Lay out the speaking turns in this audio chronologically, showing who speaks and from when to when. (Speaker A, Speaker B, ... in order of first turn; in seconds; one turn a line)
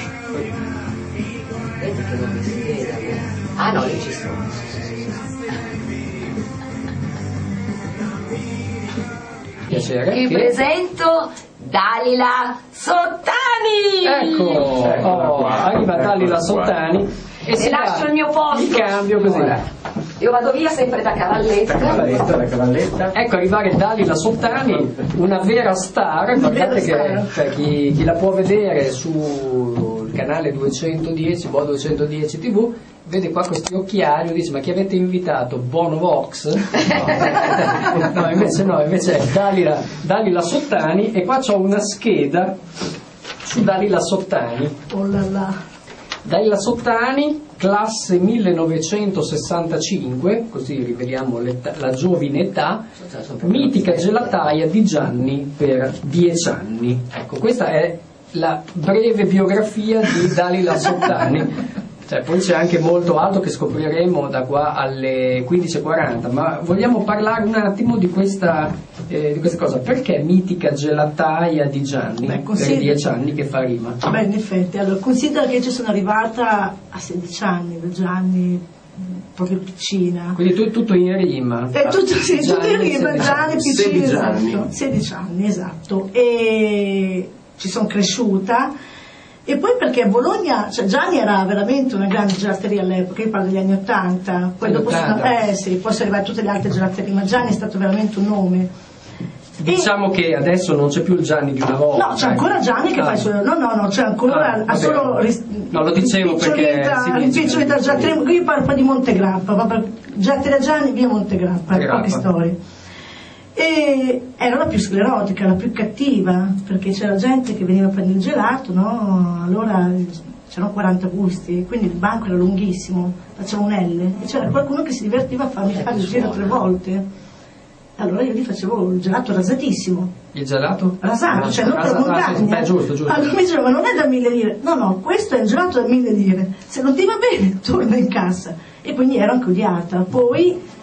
Speaker A: 1.8-5.6
Speaker B: 9.7-10.5
Speaker A: 10.1-14.8
Speaker B: 14.0-19.6
Speaker A: 17.5-19.6
Speaker A: 20.2-22.1
Speaker C: 21.7-23.1
Speaker B: 23.1-42.6
Speaker D: 26.4-27.3
Speaker B: 43.4-44.7
Speaker D: 44.9-45.5
Speaker B: 46.2-52.8
Speaker A: 53.0-54.3
Speaker B: 53.4-74.0
Speaker D: 72.2-73.0
Speaker D: 74.0-80.4
Speaker B: 80.3-84.0
Speaker D: 81.7-88.7
Speaker C: 83.4-84.7
Speaker D: 89.5-98.7
Speaker B: 94.6-95.4
Speaker B: 99.6-103.3
Speaker D: 99.6-99.9
Speaker D: 101.9-112.6
Speaker B: 104.3-105.2
Speaker B: 105.7-108.2
Speaker B: 111.7-112.2
Speaker D: 113.5-127.0
Speaker A: 125.8-126.5
Speaker D: 128.0-130.1
Speaker B: 130.3-133.3
Speaker D: 131.0-140.6